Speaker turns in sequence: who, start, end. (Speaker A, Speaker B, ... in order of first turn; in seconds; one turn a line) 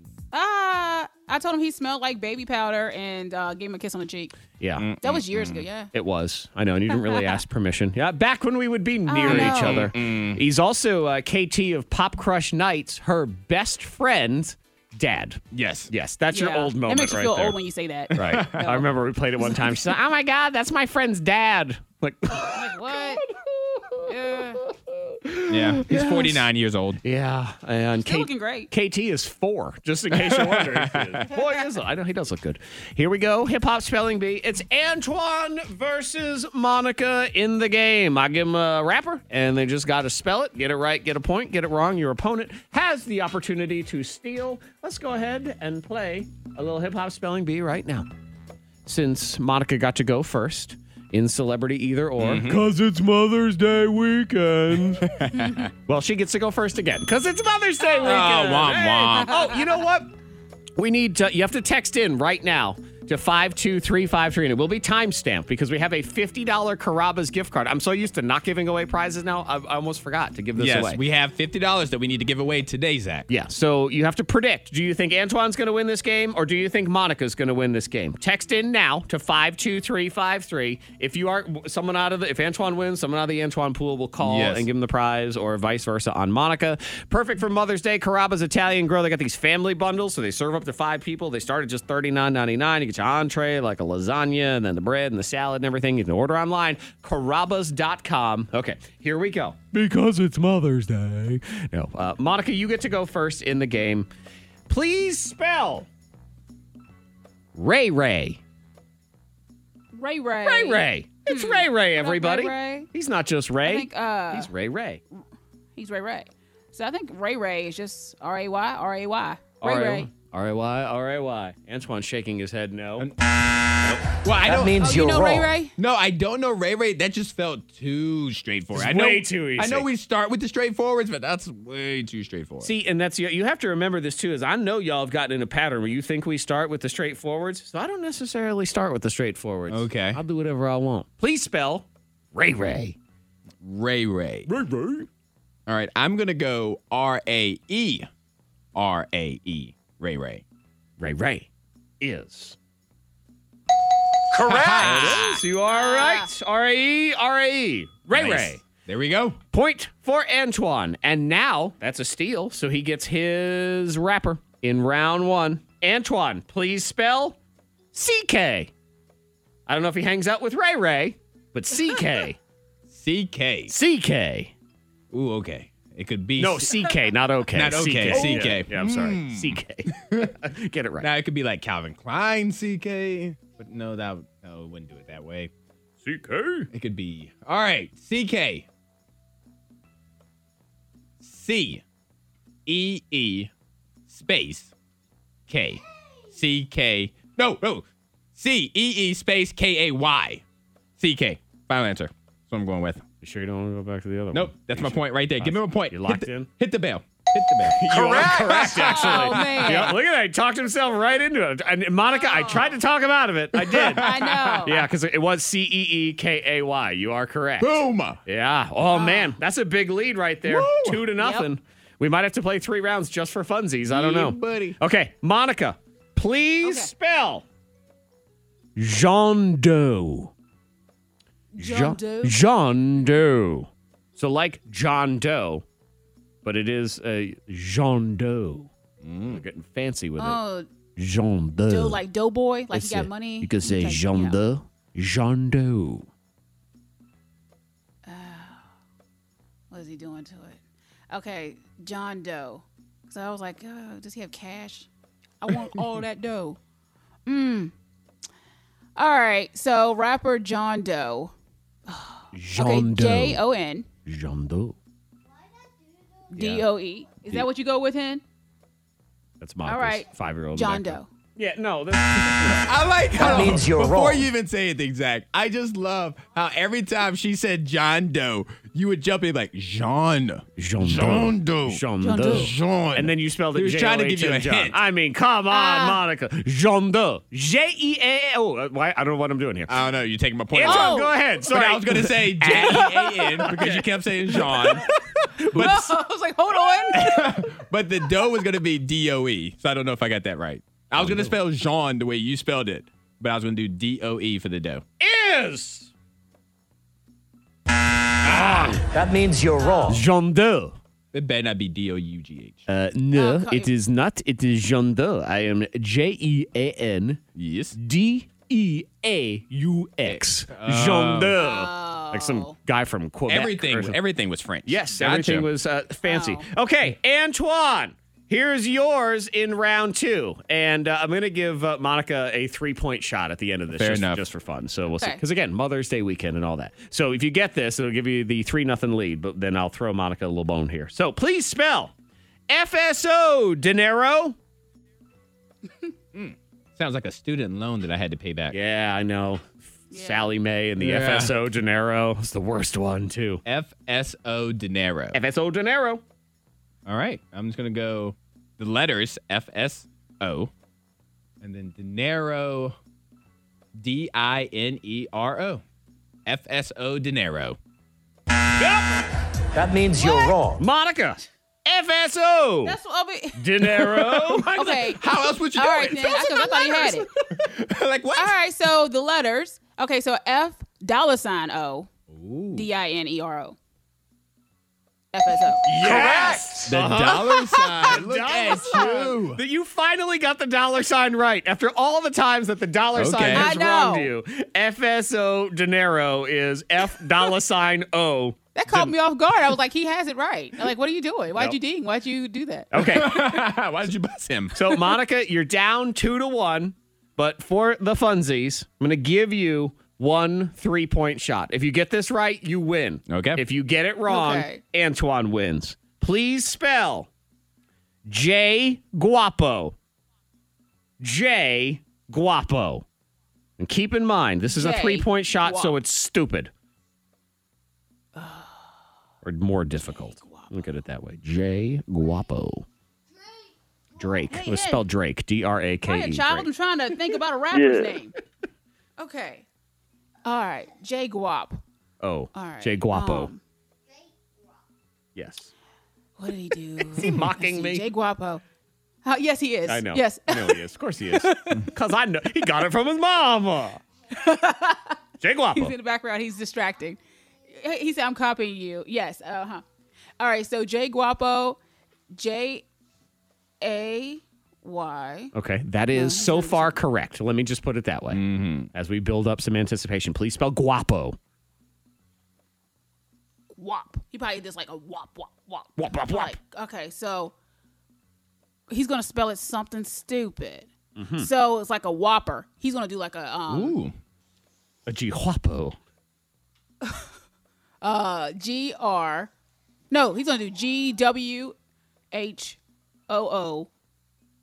Speaker A: 0.3-4.3
Speaker B: 4.6-4.9
Speaker C: 4.8-5.7
Speaker A: 5.0-5.9
Speaker B: 5.9-17.6
Speaker A: 6.9-7.4
Speaker A: 9.1-9.9
Speaker C: 9.2-10.4
Speaker C: 15.5-15.9
Speaker A: 16.3-18.8
Speaker C: 18.1-18.8
Speaker B: 18.1-24.1
Speaker A: 22.4-23.2
Speaker A: 24.1-24.6
Speaker B: 24.7-26.5
Speaker C: 25.5-27.0
Speaker B: 27.0-48.1
Speaker A: 28.0-28.7
Speaker C: 30.2-31.2
Speaker B: 48.9-55.1
Speaker C: 52.2-52.6
Speaker C: 55.0-55.7
Speaker A: 55.3-55.7
Speaker B: 55.9-60.1
Speaker C: 58.0-59.5
Speaker B: 60.8-71.0
Speaker C: 70.6-73.3
Speaker B: 73.3-104.1
Speaker C: 84.2-84.7
Speaker B: 104.7-105.9
Speaker B: 107.5-108.4
Speaker A: 109.9-112.9
Speaker B: 110.4-115.0
Speaker A: 113.6-114.5
Speaker A: 115.8-120.1
Speaker B: 119.6-123.1
Speaker C: 123.7-125.0
Speaker D: 124.4-125.5
Speaker A: 124.8-125.7
Speaker C: 125.8-132.7
Speaker B: 128.7-129.9
Speaker B: 132.6-143.0
Speaker C: 139.7-140.2
Speaker C: 143.6-144.5
Speaker B: 144.5-145.1
Speaker C: 145.7-148.1
Speaker C: 148.8-150.4
Speaker B: 151.0-151.5
Speaker B: 152.0-152.6
Speaker B: 154.3-158.6
Speaker C: 154.4-155.4
Speaker A: 155.6-156.3
Speaker C: 158.1-159.4
Speaker B: 159.5-167.4
Speaker B: 167.9-168.7
Speaker B: 169.7-172.4
Speaker C: 172.9-173.8
Speaker B: 173.7-174.5
Speaker C: 175.1-176.8
Speaker B: 176.4-181.1
Speaker C: 177.5-180.3
Speaker C: 181.0-185.5
Speaker B: 186.0-186.7
Speaker C: 186.7-188.7
Speaker C: 191.2-191.8
Speaker C: 192.7-193.5
Speaker C: 194.1-194.7
Speaker C: 195.5-197.8
Speaker C: 198.4-200.4
Speaker C: 201.0-203.0
Speaker B: 203.2-206.5
Speaker C: 204.3-209.9
Speaker B: 207.8-227.4
Speaker A: 208.8-209.9
Speaker A: 212.1-212.7
Speaker C: 213.6-214.8
Speaker A: 214.0-214.8
Speaker C: 217.6-218.2
Speaker A: 218.9-219.3
Speaker C: 220.4-221.1
Speaker A: 221.2-221.5
Speaker C: 223.9-224.8
Speaker A: 226.6-226.9
Speaker B: 228.8-230.3
Speaker A: 231.5-232.4
Speaker B: 231.6-235.7
Speaker B: 236.4-238.7
Speaker C: 239.0-239.4
Speaker B: 239.3-240.4
Speaker A: 240.2-240.7
Speaker B: 241.0-242.0
Speaker A: 241.7-244.4
Speaker B: 242.7-246.1
Speaker A: 248.1-248.6
Speaker A: 249.7-250.6
Speaker A: 251.1-254.9
Speaker A: 255.4-256.6
Speaker A: 257.3-257.7
Speaker A: 259.0-261.3
Speaker A: 261.9-263.9
Speaker B: 262.3-263.4
Speaker B: 264.1-264.8
Speaker A: 266.3-268.2
Speaker B: 266.4-266.7
Speaker B: 269.4-273.6
Speaker A: 269.6-271.1
Speaker C: 272.5-284.8
Speaker D: 273.2-274.3
Speaker B: 280.6-289.8
Speaker A: 282.0-282.5
Speaker A: 285.5-286.0
Speaker C: 289.7-295.9
Speaker B: 290.5-295.8
Speaker A: 290.6-291.1
Speaker A: 292.7-293.4
Speaker A: 295.5-297.4
Speaker C: 296.9-304.8
Speaker B: 301.0-301.3
Speaker B: 305.0-305.9
Speaker B: 308.2-308.8
Speaker C: 308.4-308.8
Speaker D: 309.0-309.7
Speaker B: 309.8-310.8
Speaker C: 311.1-312.6
Speaker B: 312.7-317.2
Speaker A: 313.1-313.7
Speaker C: 317.4-317.8
Speaker B: 317.8-324.0
Speaker C: 320.1-321.4
Speaker A: 321.4-322.6
Speaker C: 323.3-325.5
Speaker B: 324.7-341.9
Speaker A: 326.0-326.5
Speaker C: 333.7-334.2
Speaker B: 342.5-344.4
Speaker C: 346.1-348.6
Speaker B: 348.5-353.4
Speaker A: 349.9-350.3
Speaker C: 350.8-351.3
Speaker C: 353.5-355.2
Speaker B: 355.1-356.0
Speaker C: 356.9-360.5
Speaker C: 361.4-362.8
Speaker C: 363.8-365.6
Speaker C: 366.3-367.6
Speaker B: 368.6-368.9
Speaker D: 369.5-370.6
Speaker A: 370.0-370.4
Speaker B: 370.1-372.8
Speaker A: 372.6-373.4
Speaker B: 373.4-374.5
Speaker C: 373.6-378.4
Speaker A: 374.5-375.0
Speaker A: 375.6-377.1
Speaker A: 378.2-381.9
Speaker C: 382.1-382.7
Speaker A: 382.5-383.6
Speaker A: 385.1-385.6
Speaker B: 385.6-398.9
Speaker C: 385.8-389.4
Speaker A: 387.3-387.6
Speaker C: 393.0-393.5
Speaker A: 393.3-394.1
Speaker A: 398.6-402.7
Speaker B: 402.7-403.4
Speaker C: 402.7-404.8
Speaker B: 404.5-417.1
Speaker C: 413.1-413.4
Speaker A: 414.1-414.6
Speaker B: 418.1-419.8
Speaker B: 421.0-422.9
Speaker B: 423.6-426.5
Speaker A: 424.5-425.8
Speaker A: 428.2-428.6
Speaker B: 429.2-432.7
Speaker A: 430.1-430.6
Speaker B: 434.0-436.5
Speaker A: 434.3-434.8
Speaker A: 435.9-438.2
Speaker A: 439.0-439.4
Speaker A: 440.2-441.6
Speaker B: 442.0-443.3
Speaker A: 442.3-443.4
Speaker B: 445.1-445.5
Speaker A: 446.2-448.4
Speaker B: 446.9-447.9
Speaker A: 449.1-451.7
Speaker B: 449.7-453.8
Speaker A: 454.1-455.0
Speaker B: 455.2-455.7
Speaker A: 455.5-457.0
Speaker A: 457.5-459.6
Speaker A: 460.2-461.6
Speaker A: 462.1-462.6
Speaker A: 463.6-465.3
Speaker B: 465.3-468.2
Speaker A: 465.9-466.8
Speaker C: 468.1-468.7
Speaker B: 468.7-471.2
Speaker A: 473.6-477.3
Speaker B: 475.8-476.4
Speaker A: 478.7-483.8
Speaker B: 481.0-481.3
Speaker C: 483.5-483.9
Speaker B: 484.9-485.8
Speaker A: 487.8-489.3
Speaker A: 489.9-491.6
Speaker A: 492.1-493.7